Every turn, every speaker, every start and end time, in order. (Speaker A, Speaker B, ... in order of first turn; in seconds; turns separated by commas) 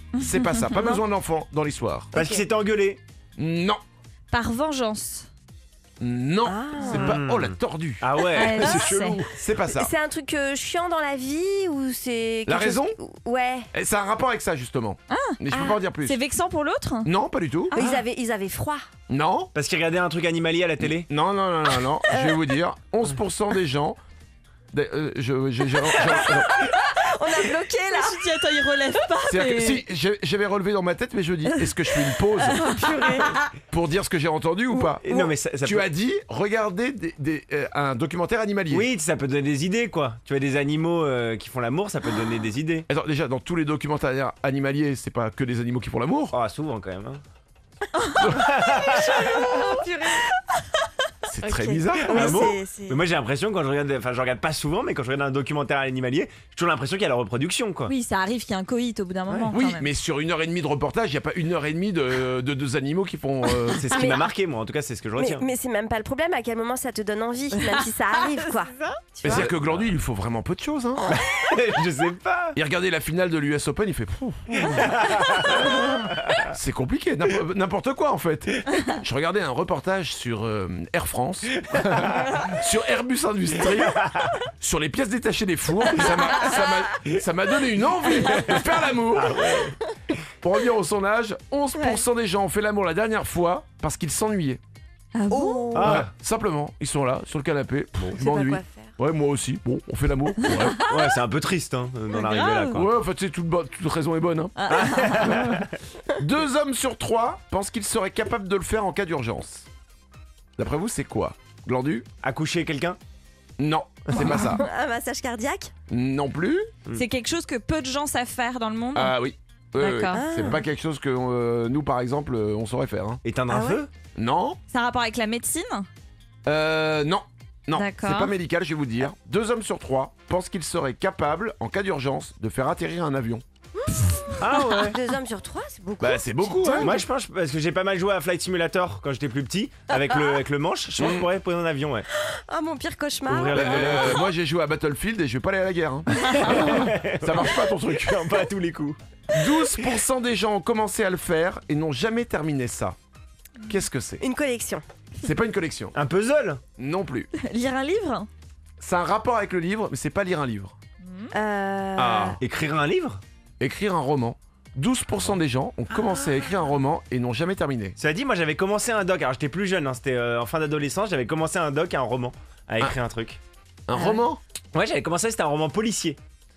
Speaker A: 0.1-1.0, Speaker B: 0.2-2.1, Speaker C: 2.1-2.4, Speaker D: 2.1-3.0, Speaker B: 3.4-3.8, Speaker A: 4.3-5.3, Speaker B: 6.0-8.1, Speaker C: 6.4-7.1, Speaker D: 7.0-9.3, Speaker A: 8.3-9.2, Speaker B: 9.3-9.9, Speaker C: 9.7-13.7, Speaker B: 12.5-13.0, Speaker B: 13.7-16.2, Speaker A: 15.1-15.4, Speaker C: 15.5-15.8, Speaker A: 16.0-17.1, Speaker B: 17.0-17.7, Speaker C: 17.7-18.8, Speaker A: 17.7-18.0, Speaker B: 19.1-19.5, Speaker D: 19.5-21.1, Speaker B: 20.8-24.0, Speaker C: 22.1-22.4, Speaker B: 24.7-26.6, Speaker D: 25.9-26.2, Speaker C: 26.5-28.2, Speaker A: 27.9-29.8, Speaker B: 29.3-32.6, Speaker C: 32.5-33.4, Speaker A: 32.6-33.4, Speaker B: 33.7-35.0, Speaker D: 35.0-35.9, Speaker B: 35.6-38.9, Speaker D: 38.7-42.9, Speaker B: 42.9-46.4, Speaker D: 46.3-47.2, Speaker A: 48.0-50.7, Speaker D: 48.2-49.7, Speaker B: 51.2-52.5, Speaker C: 51.4-53.0, Speaker D: 52.0-57.9, Speaker A: 57.9-59.9, Speaker B: 59.5-63.9, Speaker D: 63.7-65.4, Speaker C: 63.9-64.3, Speaker C: 65.2-69.4, Speaker A: 67.6-69.2, Speaker B: 69.2-71.2, Speaker D: 69.2-69.9, Speaker D: 71.0-72.6, Speaker B: 72.5-74.9, Speaker D: 74.5-76.4, Speaker B: 76.5-89.4, Speaker D: 81.6-82.5, Speaker D: 83.9-84.3, Speaker D: 88.0-89.8, Speaker B: 90.4-94.6, Speaker C: 91.8-92.0, Speaker A: 95.1-95.8, Speaker C: 95.3-96.1, Speaker D: 95.7-96.1, Speaker B: 95.8-100.8, Speaker C: 98.2-99.0, Speaker A: 100.5-100.9, Speaker D: 100.8-102.9, Speaker A: 102.3-102.7, Speaker B: 102.7-109.7, Speaker A: 104.6-105.2, Speaker D: 104.7-105.7, Speaker B: 110.6-112.0, Speaker D: 112.2-113.0, Speaker B: 113.6-114.6, Speaker A: 114.1-114.6, Speaker C: 114.2-115.7, Speaker B: 115.9-116.7, Speaker A: 116.9-119.1, Speaker B: 118.9-123.2, Speaker A: 119.8-120.2, Speaker C: 120.1-120.6, Speaker D: 123.2-123.9, Speaker C: 123.5-123.8, Speaker B: 124.2-124.6, Speaker A: 124.7-125.9, Speaker B: 126.5-133.4, Speaker A: 127.7-128.3, Speaker D: 134.4-135.0, Speaker C: 134.8-136.9, Speaker B: 136.0-137.0, Speaker D: 136.6-142.1, Speaker B: 141.0-141.2, Speaker C: 142.2-143.8, Speaker D: 143.2-144.2, Speaker B: 143.5-148.4, Speaker D: 146.2-149.0, Speaker B: 149.3-153.0, Speaker B: 153.7-154.2, Speaker C: 154.2-154.8, Speaker B: 155.2-155.9, Speaker D: 155.9-156.6, Speaker B: 156.8-157.3, Speaker A: 157.3-158.3, Speaker B: 158.8-160.7, Speaker A: 161.0-161.3, Speaker C: 161.3-162.4, Speaker B: 162.0-162.4, Speaker D: 162.4-163.2, Speaker B: 163.6-168.0, Speaker D: 168.0-173.4, Speaker B: 173.9-174.4, Speaker C: 174.0-174.2, Speaker D: 174.7-176.2